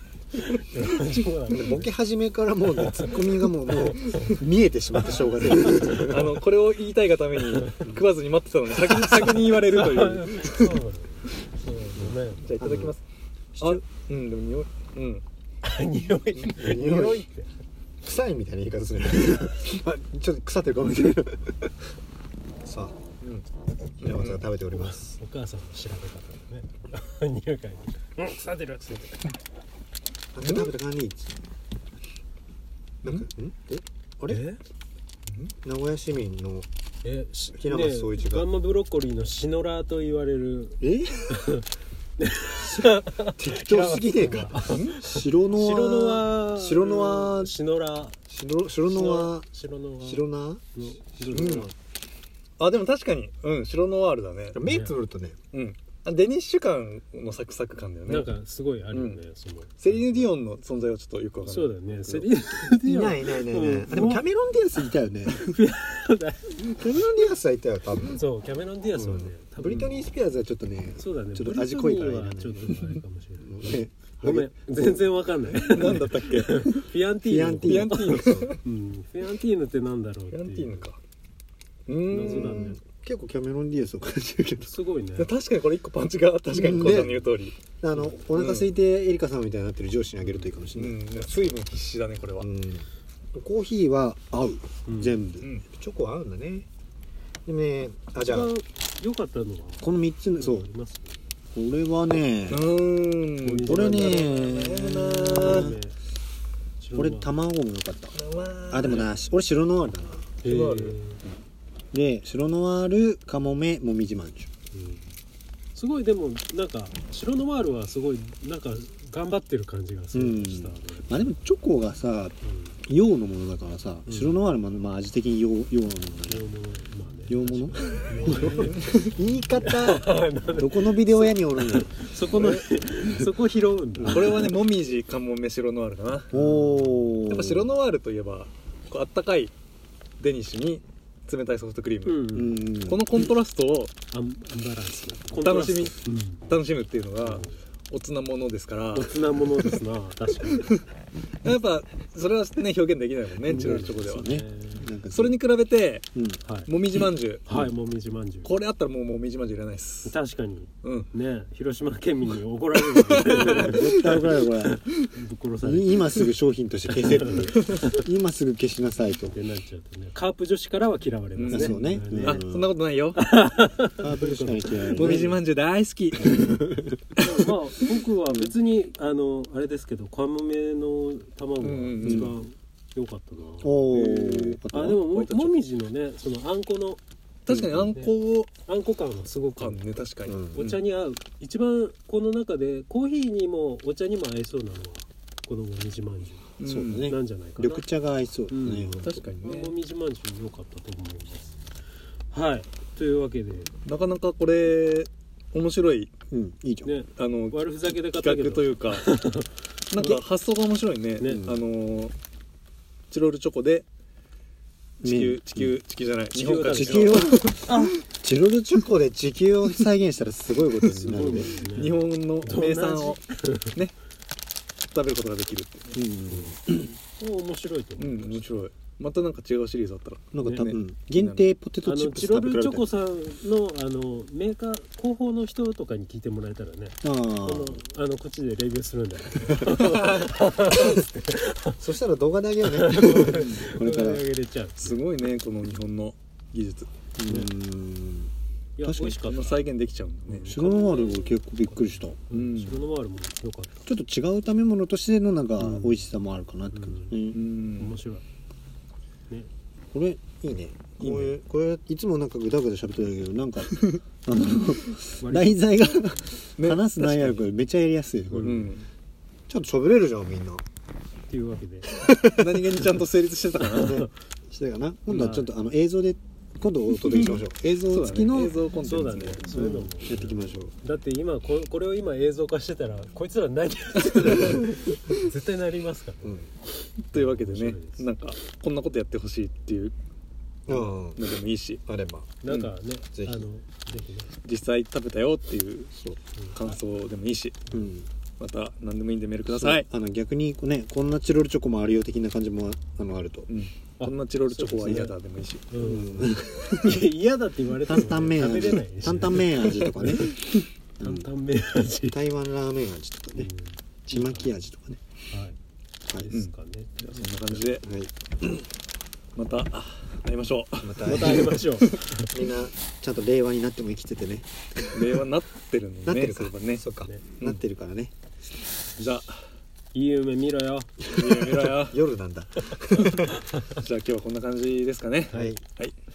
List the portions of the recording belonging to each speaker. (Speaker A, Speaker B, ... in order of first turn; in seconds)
Speaker A: 0.4-1.9, 2.7-4.4, 5.0-6.0, 7.5-7.8, 8.9-12.5, 15.6-17.5, 24.8-29.3, 34.3-34.6, 37.0-41.6, 42.2-48.2, 48.9-51.7, 54.6-55.0, 58.0-60.3, 61.5-64.3, 65.3-66.8, 68.1-70.1, 71.0-80.8, 82.1-82.8, 84.6-85.3, 94.9-95.2, 98.2-101.1, 103.4-104.4, 105.4-106.0, 106.8-107.3, 110.4-111.2, 114.7-115.1, 115.7-121.3, 122.4-122.7, 124.0-124.4, 126.3-128.9, 129.5-134.5, 136.3-137.2, 142.1-142.6, 144.1-146.4, 147.2-147.6, 148.9-150.8, 153.5-154.9, 156.4-156.7, 157.4-158.5, 160.0-164.2, 165.1-166.2, 167.2-168.0, 169.3-172.4, 173.2-175.3, 177.2-187.0, 188.7-189.8, 190.5-196.5, 197.0-197.8, 198.5-201.6, 202.3-203.7, 206.8-210.2, 211.2-211.4, 216.3-217.9, 220.9-223.8, 227.2-228.4, 230.4-230.7, 231.8-241.8, 242.7-245.1, 247.2-247.5, 248.8-249.7, 250.2-253.8, 255.6-256.1, 256.7-257.1, 257.8-258.2, 265.2-265.7, 271.3-271.9, 273.8-274.1, 275.1-275.5, 278.8-286.4, 287.1-288.1, 292.4-294.3, 296.4-296.8, 304.0-305.1, 305.7-310.2, 311.0-312.2, 313.4-314.5, 315.3-315.6, 316.1-317.6, 321.0-322.3, 329.9-330.9, 332.9-333.6
Speaker B: 1.5-6.3, 12.0-12.9, 13.6-13.8, 16.4-17.2, 18.0-21.7, 22.6-22.9, 24.0-25.0, 30.3-31.4, 33.0-34.4, 35.6-36.7, 37.5-38.5, 40.8-41.3, 42.5-47.5, 48.3-49.5, 50.0-51.7, 54.5-55.4, 62.8-65.4, 66.7-68.2, 69.0-72.8, 73.4-75.1, 77.2-78.5, 82.2-84.7, 86.5-87.2, 87.8-91.6, 92.4-96.7, 97.5-98.5, 99.8-100.7, 101.5-102.6, 103.7-105.8, 107.0-108.2, 108.7-110.3, 111.9-114.5, 120.1-122.3, 122.9-126.4, 127.3-131.9, 134.0-134.3, 136.3-137.7, 142.3-143.0, 153.5-155.4, 163.3-164.8, 165.6-169.3, 171.5-172.7, 174.0-175.4, 176.3-176.9, 182.0-182.3, 183.6-185.0, 187.5-187.8, 190.3-190.6, 196.6-199.3, 206.3-206.9, 211.2-211.6, 215.0-215.7, 216.7-221.6, 225.9-226.9, 230.3-232.9, 237.0-237.8, 241.8-244.2, 247.2-248.3, 248.8-249.2, 250.5-252.2, 253.8-257.4, 259.9-268.7, 269.5-270.6, 272.0-272.9, 273.6-280.7, 286.2-286.5, 290.7-291.2, 291.9-292.4, 293.1-293.5, 295.9-296.2, 297.7-298.1, 299.4-303.5, 304.8-305.1, 305.8-307.0, 307.8-311.3, 312.1-313.5, 314.1-315.0, 317.8-318.6, 320.8-321.6, 322.3-325.1, 326.1-328.1, 331.2-333.3, 335.3-335.6
Speaker C: 5.6-10.8, 12.4-13.0, 13.6-15.2, 24.0-24.4, 30.4-30.7, 44.6-45.0, 51.3-51.7, 52.6-54.6, 55.5-58.3, 58.9-59.2, 59.8-62.3, 75.5-76.8, 77.6-78.6, 80.3-81.0, 81.9-82.6, 85.2-87.5, 88.3-88.7, 90.2-92.5, 102.5-105.8, 108.1-109.1, 110.4-111.0, 128.3-129.1, 132.3-132.7, 134.0-136.3, 137.3-139.5, 140.2-142.2, 142.8-143.9, 145.4-145.9, 146.5-149.7, 151.4-154.4, 155.1-156.1, 156.7-157.5, 158.4-160.1, 160.8-161.1, 162.9-164.2, 171.3-173.2, 174.9-176.6, 177.2-177.5, 181.6-182.3, 183.9-184.6, 185.1-185.5, 187.4-188.5, 189.6-190.8, 196.6-197.1, 199.0-199.7, 203.8-206.1, 207.2-209.0, 209.9-212.1, 213.1-213.8, 215.0-217.8, 220.8-223.9, 224.9-225.9, 228.0-231.4, 243.3-243.6, 244.8-246.9, 249.2-250.6, 252.3-252.8, 257.3-257.9, 261.0-261.4, 263.7-264.0, 266.6-267.4, 268.4-268.9, 272.3-274.0, 277.0-279.4, 284.0-284.7, 287.1-289.9, 290.7-291.8, 294.4-295.9, 296.5-297.8, 298.4-299.9, 303.5-305.7, 306.7-307.0, 309.4-310.6, 316.3-317.8, 319.4-321.9, 324.9-326.8, 329.0-329.3, 331.1-332.0, 333.8-335.9